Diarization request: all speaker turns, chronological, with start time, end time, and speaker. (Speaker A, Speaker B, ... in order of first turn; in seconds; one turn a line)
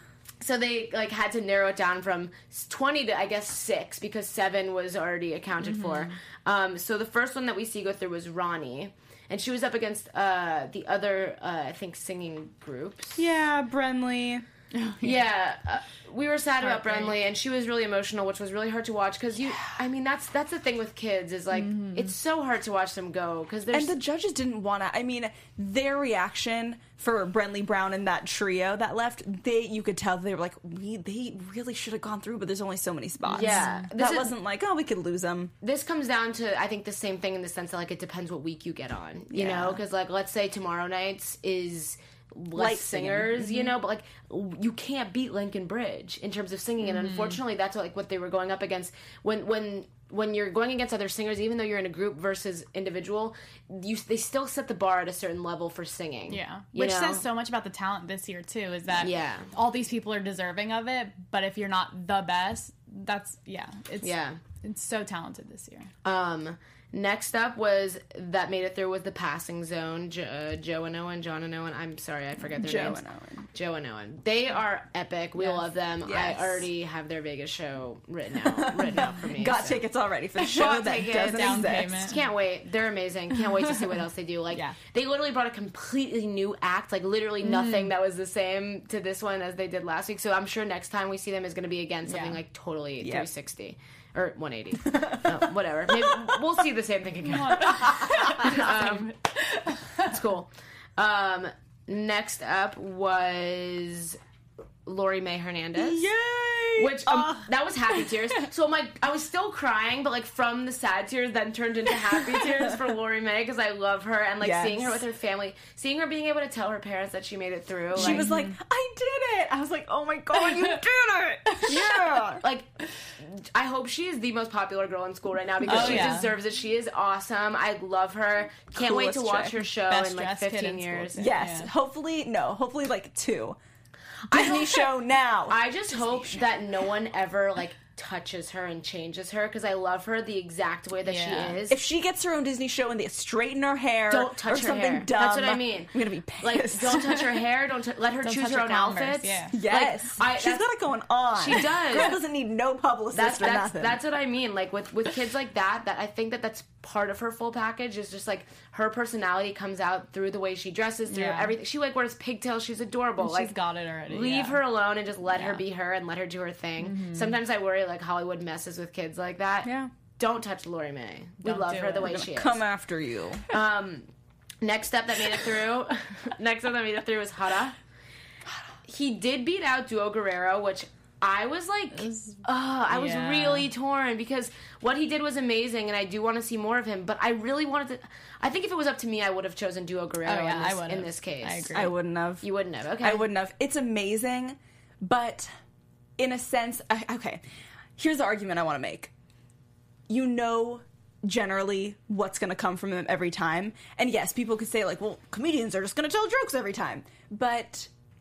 Speaker A: 0.4-13.2
Speaker B: 5.6-6.1
Speaker C: 13.2-14.4
Speaker B: 14.7-15.2
Speaker A: 15.0-23.9
Speaker B: 16.6-17.1
Speaker B: 21.5-22.1
Speaker C: 23.7-35.5
Speaker B: 33.3-33.9
Speaker A: 33.3-34.3
Speaker A: 35.6-57.2
Speaker C: 39.3-39.8
Speaker C: 42.5-43.4
Speaker B: 46.8-47.4
Speaker B: 56.3-65.9
Speaker A: 59.0-59.5
Speaker A: 64.0-64.4
Speaker A: 66.0-73.0
Speaker C: 72.6-73.4
Speaker A: 73.5-79.8
Speaker B: 75.3-75.7
Speaker C: 76.0-76.6
Speaker C: 78.6-82.2
Speaker B: 80.4-82.2
Speaker A: 80.4-99.1
Speaker B: 87.4-87.9
Speaker B: 92.0-92.4
Speaker C: 93.0-93.3
Speaker C: 94.9-95.4
Speaker B: 97.2-100.2
Speaker A: 100.0-104.2
Speaker A: 104.8-106.1
Speaker C: 105.8-107.5
Speaker A: 106.8-118.3
Speaker C: 114.4-115.0
Speaker B: 117.9-118.6
Speaker C: 117.9-122.4
Speaker B: 120.3-120.8
Speaker B: 121.5-121.8
Speaker A: 121.7-122.7
Speaker A: 123.2-131.2
Speaker C: 125.6-126.2
Speaker B: 125.7-126.3
Speaker C: 128.7-129.6
Speaker B: 129.8-131.7
Speaker C: 131.2-133.6
Speaker A: 134.3-134.9
Speaker C: 134.3-136.5
Speaker A: 135.5-141.8
Speaker B: 141.0-141.6
Speaker C: 141.7-147.4
Speaker A: 144.1-150.7
Speaker B: 148.2-149.6
Speaker C: 148.7-154.0
Speaker A: 151.3-152.2
Speaker A: 153.1-163.5
Speaker B: 161.1-161.5
Speaker B: 163.2-164.6
Speaker A: 164.1-172.6
Speaker B: 165.3-165.6
Speaker B: 166.8-167.4
Speaker C: 169.6-169.9
Speaker B: 171.4-172.1
Speaker C: 172.0-173.5
Speaker A: 173.5-174.1
Speaker A: 174.6-177.8
Speaker A: 178.9-191.8
Speaker B: 181.9-183.7
Speaker B: 190.2-191.9
Speaker C: 191.7-192.5
Speaker A: 192.4-193.3
Speaker C: 193.0-195.5
Speaker C: 196.2-197.4
Speaker C: 198.0-199.1
Speaker C: 200.1-207.9